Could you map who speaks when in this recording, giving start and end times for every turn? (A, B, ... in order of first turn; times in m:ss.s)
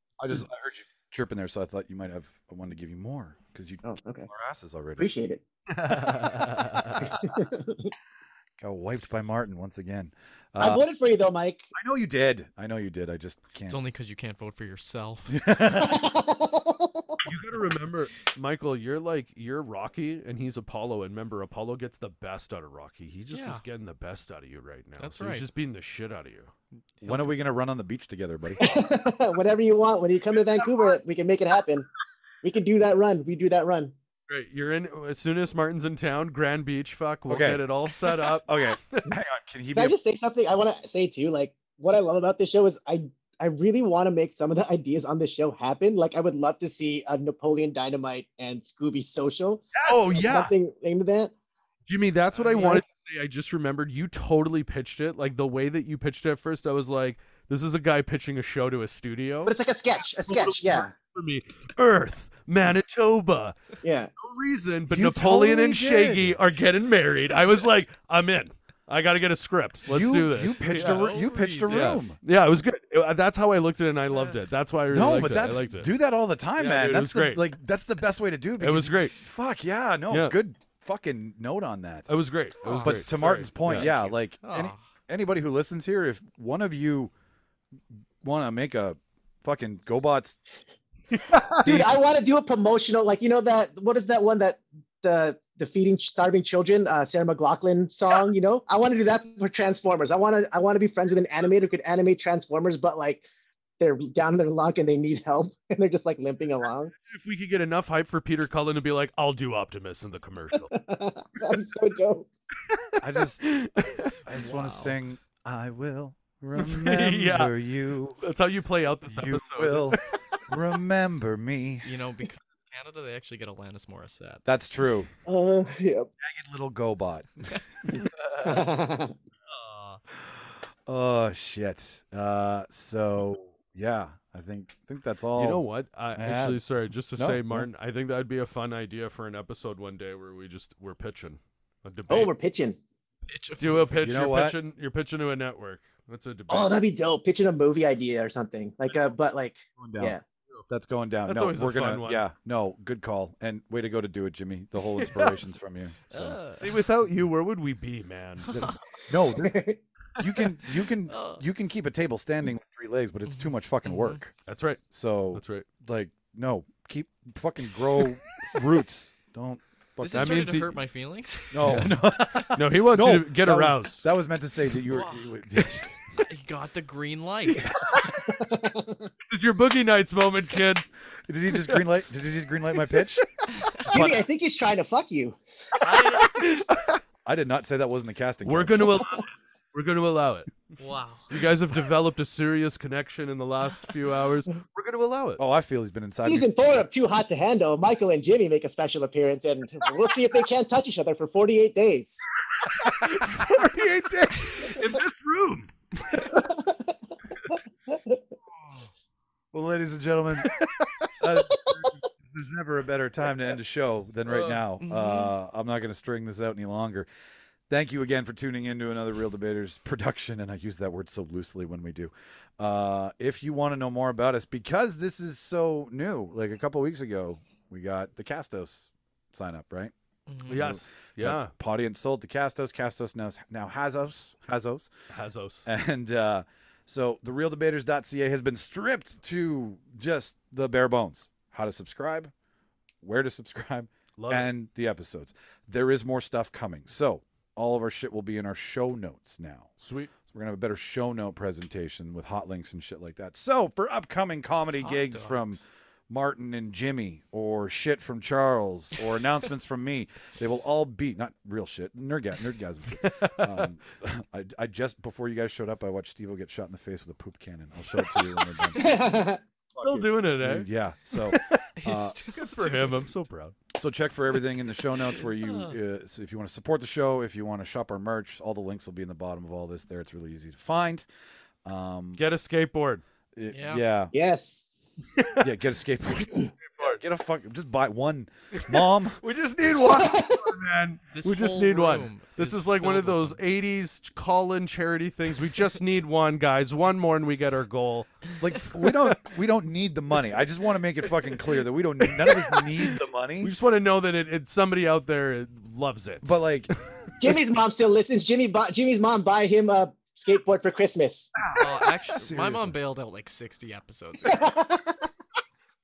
0:00.2-0:05.1 A
0:03.8-0:04.3 B
0:05.0-0:05.4 B
0:05.7-0:07.1 C
0:07.0-0:07.9 B
0:08.6-0:10.8 A
0:10.6-0:11.7 B
0:11.7-0:13.8 A
0:13.7-0:15.4 D
0:15.3-0:16.0 A
0:15.7-0:17.2 B
0:17.2-0:26.5 C
0:23.3-0:23.6 D
0:25.0-0:25.5 D
0:27.0-0:28.8 A
0:27.0-0:27.3 D
0:28.6-0:31.9 B
0:32.4-0:33.9 B
0:34.3-0:39.1 C
0:37.3-0:40.0 A
0:39.8-0:51.3 B
0:49.8-0:50.5 C
0:51.9-0:59.5 C
0:52.3-0:52.8 D
0:52.5-0:52.8 B
0:59.4-1:00.9 B
1:00.2-1:15.9 C
1:03.8-1:04.1 B
1:04.9-1:06.3 A
1:09.9-1:12.2 A
1:10.6-1:12.0 D
1:14.1-1:14.4 D
1:14.9-1:22.1 A
1:16.6-1:17.4 C
1:18.6-1:19.2 C
1:20.1-1:20.4 C
1:22.1-1:23.9 C
1:22.6-1:23.0 D
1:22.8-1:27.1 A
1:23.6-1:24.8 D
1:28.2-1:30.4 A
1:31.1-1:31.7 C
1:31.6-1:43.2 B
1:31.6-1:31.9 A
1:43.8-1:46.9 B
1:47.1-1:50.7 C
1:50.7-1:52.3 B
1:53.0-1:53.4 A
1:53.4-1:54.2 C
1:54.2-1:58.2 A
1:54.3-1:55.0 D
1:56.6-1:57.5 C
1:58.2-2:00.1 C
1:59.1-2:01.9 A
2:01.8-2:04.4 D
2:04.4-2:05.1 A
2:05.2-2:06.1 B
2:06.2-2:07.6 A
2:08.4-2:09.1 B
2:09.5-2:10.0 D
2:10.2-2:15.6 A
2:15.4-2:22.3 C
2:16.1-2:16.6 A
2:17.2-2:17.7 A
2:22.1-2:22.8 B
2:23.3-2:24.0 D
2:23.6-2:26.8 C
2:24.0-2:24.6 A
2:26.5-2:30.2 B
2:29.8-2:30.2 A
2:30.7-2:36.4 A
2:31.2-2:32.2 C
2:35.0-2:35.4 C
2:36.1-2:36.7 D
2:36.5-2:38.5 C
2:38.5-2:39.6 A
2:39.4-2:39.8 B
2:40.2-2:44.3 A
2:41.1-2:41.4 D
2:43.4-2:44.2 D
2:44.4-2:44.8 C
2:44.9-2:50.6 A
2:45.3-2:45.7 C
2:50.0-2:51.9 D
2:50.1-2:50.7 C
2:51.5-2:55.9 A
2:51.6-2:51.9 C
2:52.5-2:54.0 C
2:56.3-2:57.7 D
2:57.5-2:58.1 C
2:58.3-2:59.1 B
2:59.2-3:00.9 C
3:01.3-3:03.3 A
3:01.5-3:01.8 C
3:02.9-3:04.0 C
3:03.8-3:05.4 B
3:03.8-3:04.2 A
3:05.7-3:07.0 C
3:05.8-3:06.5 D
3:07.2-3:09.1 A
3:08.4-3:10.6 C
3:10.8-3:11.3 D
3:11.3-3:15.4 C
3:15.4-3:16.5 A
3:16.2-3:22.2 B
3:22.7-3:26.5 C
3:26.2-3:26.9 B
3:27.9-3:28.2 B
3:29.5-3:30.5 A
3:30.4-3:31.1 C
3:31.2-3:37.1 A
3:34.2-3:34.6 C
3:34.8-3:35.3 D
3:37.7-3:49.9 A
3:50.3-3:50.7 D
3:50.5-3:51.5 C
3:50.5-3:54.9 A
3:55.1-3:55.7 C
3:55.6-4:02.3 A
4:03.0-4:29.1 A
4:04.2-4:04.5 C
4:09.8-4:10.1 C
4:14.8-4:15.7 D
4:23.0-4:23.6 C
4:28.0-4:28.3 C
4:28.8-4:29.1 D
4:28.8-4:29.4 B
4:29.8-4:32.2 A
4:29.8-4:31.6 C
4:31.7-4:33.1 D
4:32.3-4:33.6 C
4:33.7-4:41.0 A
4:35.1-4:35.8 D
4:41.6-4:42.2 A
4:42.2-4:43.0 C
4:43.4-4:44.1 A
4:43.5-4:43.8 D
4:44.1-4:44.7 B
4:45.2-4:45.5 C
4:45.4-4:49.2 A
4:46.6-4:47.0 C
4:48.5-4:58.1 C
4:49.8-4:50.6 B
4:51.1-4:53.4 D
4:58.4-5:03.5 A
5:03.4-5:06.4 C
5:06.2-5:06.8 A
5:07.2-5:11.3 B
5:11.5-5:14.5 D
5:11.6-5:12.8 A
5:14.2-5:15.1 B